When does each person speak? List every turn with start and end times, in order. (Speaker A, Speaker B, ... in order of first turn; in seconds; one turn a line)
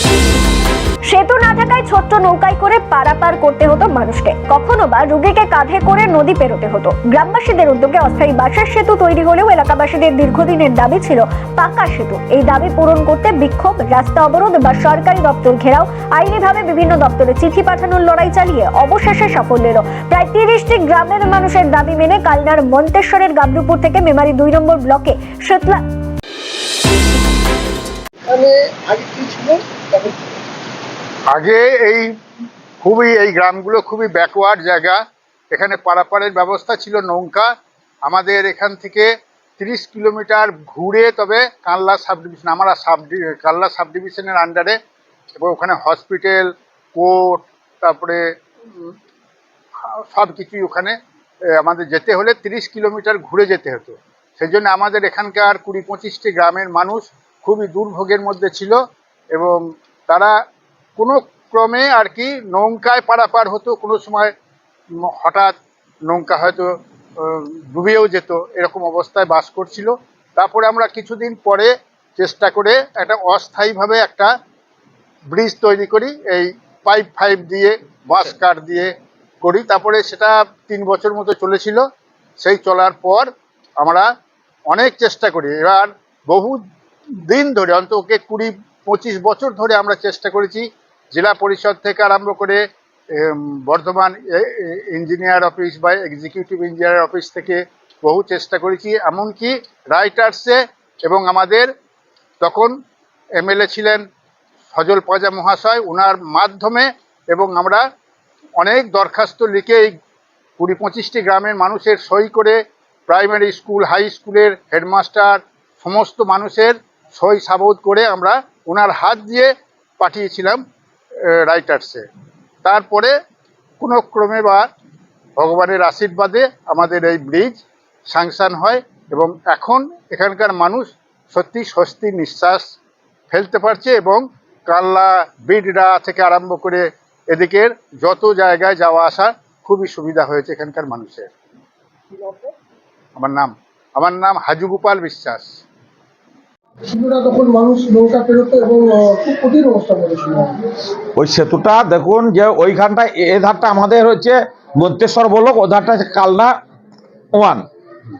Speaker A: 1.1-25.8
Speaker B: 28.3-30.4
Speaker C: 31.3-32.1
Speaker C: 32.8-35.0
Speaker C: 35.5-37.5
Speaker C: 38.1-44.8
Speaker C: 45.4-48.2
Speaker C: 49.8-51.0
Speaker C: 51.5-58.8
Speaker C: 59.3-60.3
Speaker C: 61.0-64.3
Speaker C: 65.0-74.3
Speaker C: 75.3-78.9
Speaker C: 79.4-81.8
Speaker C: 82.4-84.1
Speaker C: 84.7-86.6
Speaker C: 87.3-92.6
Speaker C: 93.2-101.7
Speaker C: 102.4-102.8
Speaker C: 103.4-104.0
Speaker C: 104.7-107.8
Speaker C: 108.6-109.9
Speaker C: 110.6-120.6
Speaker C: 121.3-122.0
Speaker C: 122.6-123.1
Speaker C: 123.8-124.7
Speaker C: 125.4-132.7
Speaker C: 133.3-141.3
Speaker B: 142.1-142.5
Speaker C: 143.2-145.5
Speaker B: 146.8-150.7
Speaker D: 151.2-156.5
Speaker D: 157.3-157.7